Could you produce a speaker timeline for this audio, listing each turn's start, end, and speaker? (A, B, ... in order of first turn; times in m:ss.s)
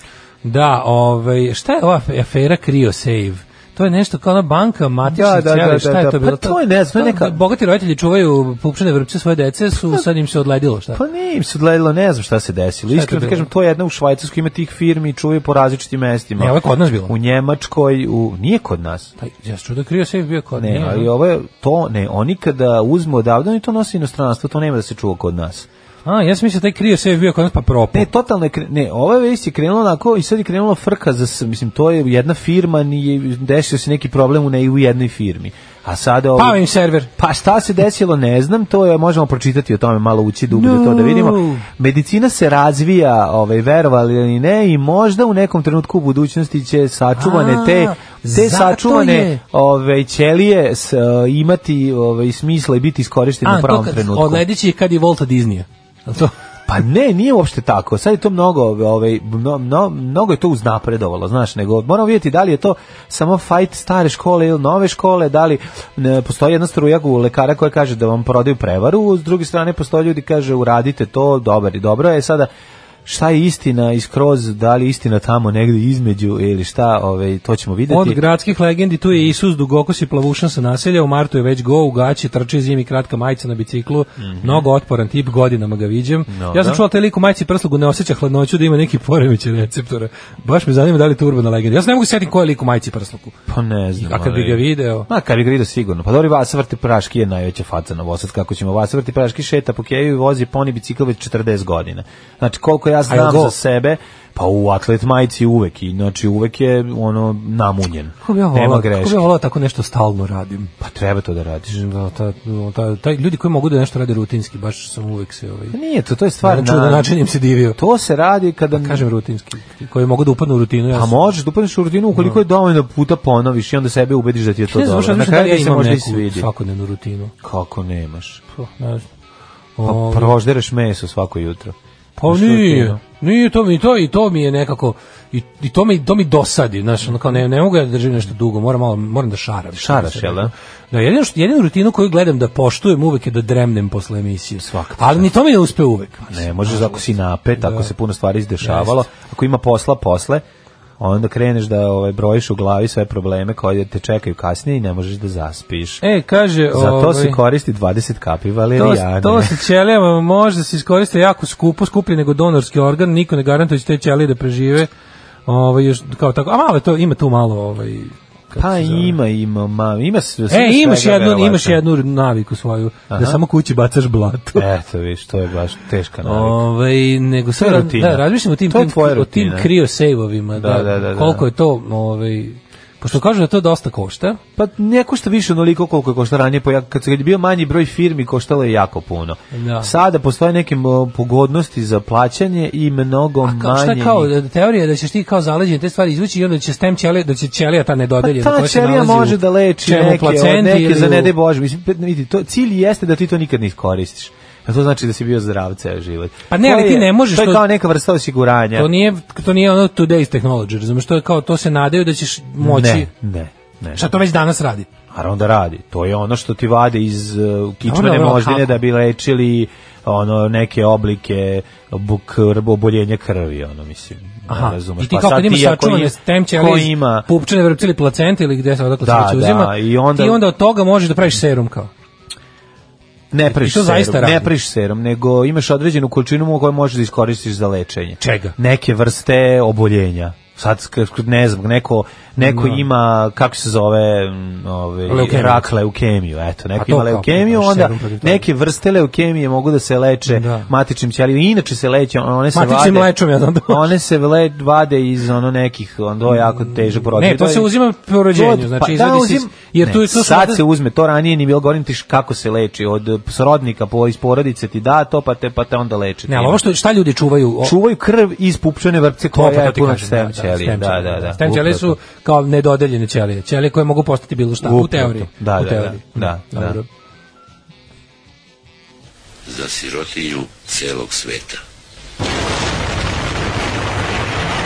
0:00.4-0:11.0 A
0:05.0-0:07.4 B
0:10.9-0:19.1 B
0:12.9-0:13.5 A
0:16.4-0:17.1 A
0:19.2-0:21.1 A
0:20.6-0:25.7 B
0:26.0-0:28.1 A
0:27.9-0:36.6 B
0:36.4-0:37.1 A
0:37.2-0:54.4 B
0:40.5-0:41.6 A
0:47.2-0:49.4 A
0:53.4-0:56.3 A
0:56.7-1:12.5 B
1:13.0-1:18.2 B
1:17.9-1:33.4 A
1:24.2-1:24.7 B
1:26.3-1:26.8 B
1:33.5-1:49.3 B
1:34.0-1:35.1 A
1:43.1-1:43.5 A
1:48.2-1:50.7 A
1:50.8-1:51.8 B
1:51.7-1:55.8 A
1:55.7-1:57.1 B
1:56.4-1:57.8 A
1:57.8-1:59.0 B
1:58.7-2:01.1 A
2:00.9-2:06.5 B
2:04.7-2:07.3 A
2:07.4-2:08.4 B
2:08.6-2:09.0 A
2:09.8-2:10.4 A
2:09.8-2:13.0 B
2:12.2-2:27.0 A
2:19.8-2:20.5 B
2:24.6-2:25.3 B
2:26.3-2:30.4 B
2:27.6-2:27.9 A
2:28.6-2:29.0 A
2:31.0-2:36.0 B
2:36.0-2:37.4 A
2:36.7-2:39.6 B
2:38.8-2:44.9 A
2:45.4-2:49.2 A
2:48.6-2:51.8 B
2:50.5-2:54.6 A
2:53.1-2:53.4 B
2:54.5-2:56.6 B
2:56.2-3:04.4 A
2:57.6-2:59.7 B
3:00.6-3:01.4 B
3:04.6-3:14.3 B
3:09.5-3:09.9 A
3:13.4-3:21.3 A
3:18.2-3:28.9 B
3:26.5-3:27.6 A
3:28.7-3:33.1 A
3:32.6-3:34.0 B
3:33.9-3:34.9 A
3:35.1-3:47.3 B
3:37.8-3:38.8 A
3:44.5-3:51.9 A
3:49.0-3:50.4 B
3:53.3-4:13.1 B
3:53.4-3:54.5 A
3:58.2-3:58.5 A
4:02.4-4:02.9 A
4:05.1-4:05.7 A
4:06.8-4:08.4 A
4:10.3-4:10.7 A
4:12.5-4:13.9 A
4:13.6-4:17.7 B
4:17.0-4:20.6 A
4:18.3-4:26.6 B
4:26.3-4:27.7 A
4:27.6-4:32.0 B
4:29.3-4:36.8 A
4:34.6-4:36.8 B
4:39.4-4:41.6 C